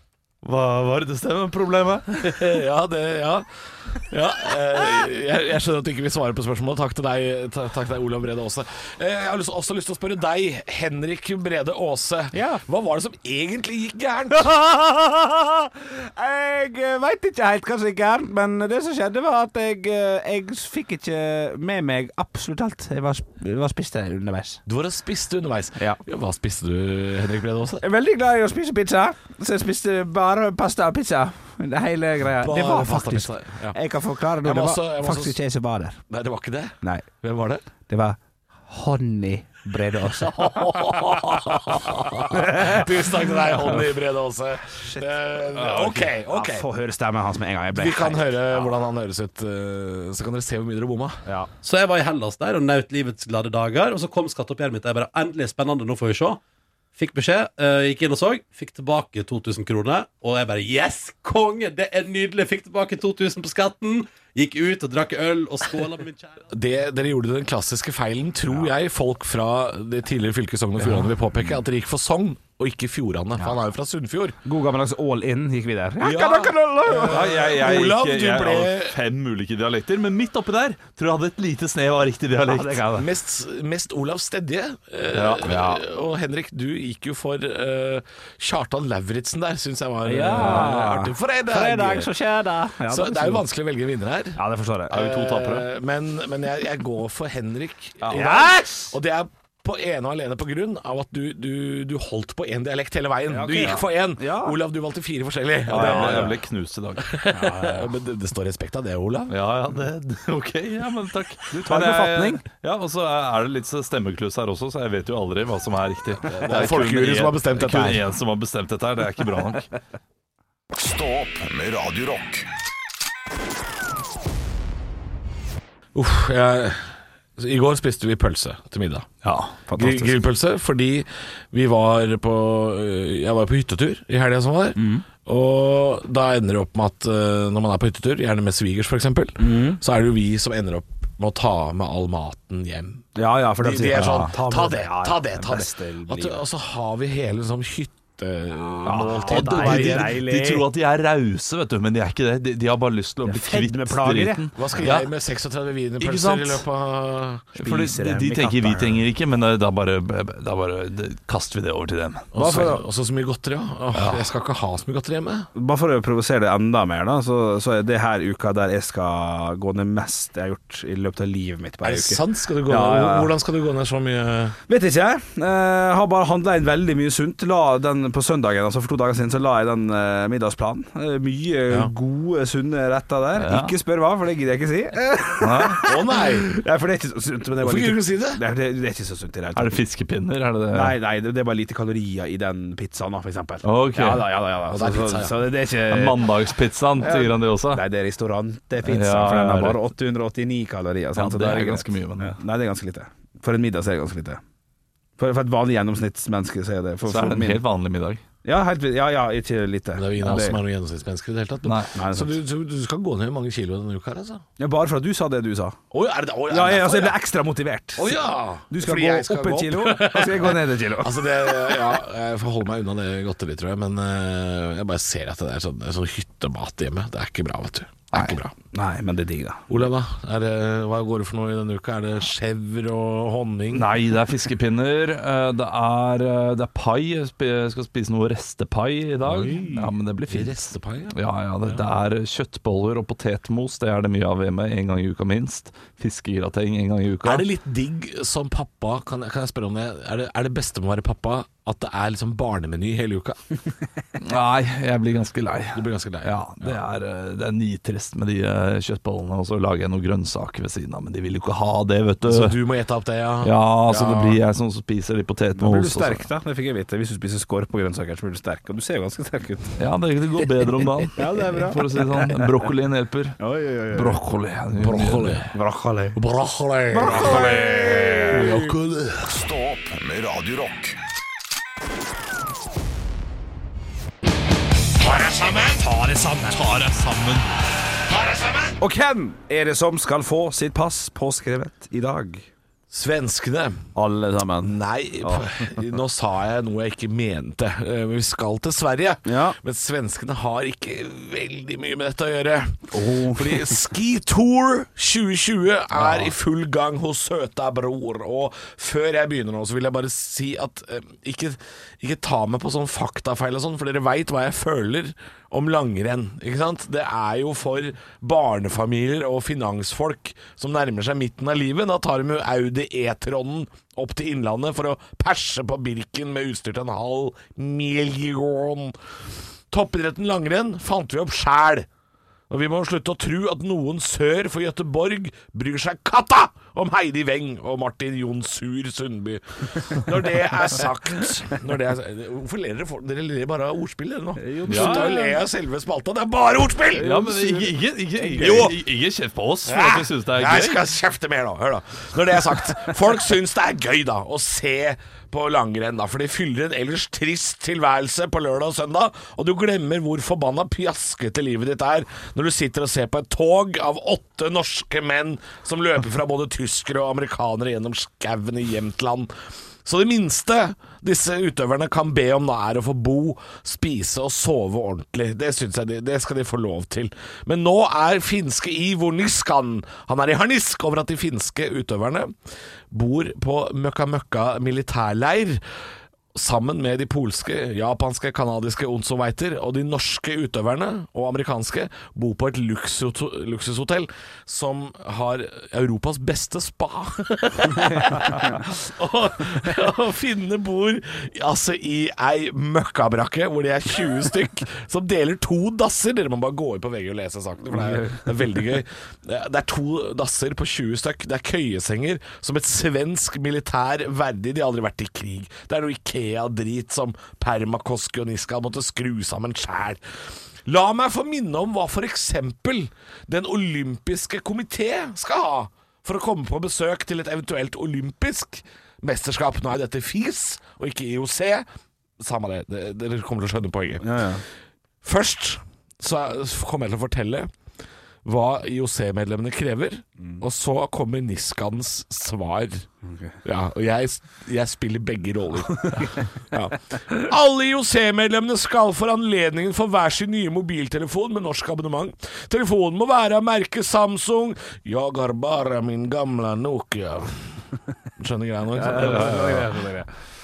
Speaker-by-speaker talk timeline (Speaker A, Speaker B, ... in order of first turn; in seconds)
Speaker A: 0.4-2.5, 45.5-46.1, 77.1-82.9, 85.1-85.7, 90.2-90.9, 94.9-95.7, 105.7-107.1, 109.3-119.7, 149.3-155.1, 156.0-156.6, 157.6-162.6, 163.9-164.3, 183.4-183.7, 185.4-185.8, 189.6-191.0, 193.6-194.3, 195.9-197.8, 198.8-199.8, 201.2-202.4, 207.1-208.2, 211.7-211.9, 233.7-247.5, 254.2-262.6, 263.4-266.3, 269.8-273.4, 273.9-275.4, 277.1-278.6, 286.6-287.5, 344.7-345.1, 347.0-350.9
Speaker B: 2.2-14.5, 24.7-27.8, 32.4-33.8, 34.4-35.4, 36.1-37.6, 40.0-46.7, 47.7-51.2, 66.5-74.4, 76.0-79.0, 82.9-92.1, 92.9-106.4, 107.0-109.4, 116.2-118.0, 126.0-129.1, 129.8-150.2, 154.6-157.6, 162.3-165.5, 171.8-174.6, 185.8-186.5, 187.6-188.4, 194.7-195.4, 209.9-214.4, 215.9-217.2, 218.0-228.5, 229.7-233.9, 239.3-239.8, 240.3-241.8, 247.2-253.4, 255.7-256.8, 262.2-264.4, 274.8-275.5, 276.1-278.8, 285.0-285.9, 288.1-288.8, 292.9-293.8, 294.6-329.0, 329.7-331.9, 332.5-347.1, 348.4-348.7, 349.7-369.3, 369.8-382.3, 382.9-385.6, 386.3-420.0, 420.6-431.6, 432.2-434.3, 435.0-437.5, 438.2-442.9, 443.4-457.6, 458.2-459.8
Speaker C: 12.3-12.6, 14.3-24.6, 25.8-26.0, 27.8-36.0, 36.8-37.1, 37.9-38.2, 38.7-42.9, 44.8-45.1, 46.3-48.7, 74.5-77.2, 82.5-83.0, 90.0-93.4, 94.4-95.0, 98.1-99.0, 103.3-104.6, 105.7-106.4, 107.3-107.9, 111.5-112.4, 129.2-130.2, 134.8-135.1, 139.4-139.8, 143.2-146.4, 148.8-150.7, 153.3-154.5, 157.6-159.0, 162.3-162.8, 165.6-173.3, 174.7-189.8, 190.7-196.3, 197.0-204.4, 205.2-207.6, 208.4-210.6, 211.9-212.4, 214.6-215.8, 216.5-218.2, 218.7-221.8, 228.1-229.6, 265.6-269.8, 271.1-272.3, 273.4-274.2, 275.5-276.2, 276.9-278.7, 285.8-286.8, 288.8-292.5, 293.9-295.7, 299.3-299.6, 302.9-303.8, 306.0-306.3, 344.4-345.4, 346.9-348.7, 407.9-408.3, 434.0-434.4, 443.1-443.3, 458.8-460.1
Speaker D: 51.6-56.4, 57.0-66.4
Speaker E: 120.7-122.5, 279.2-281.0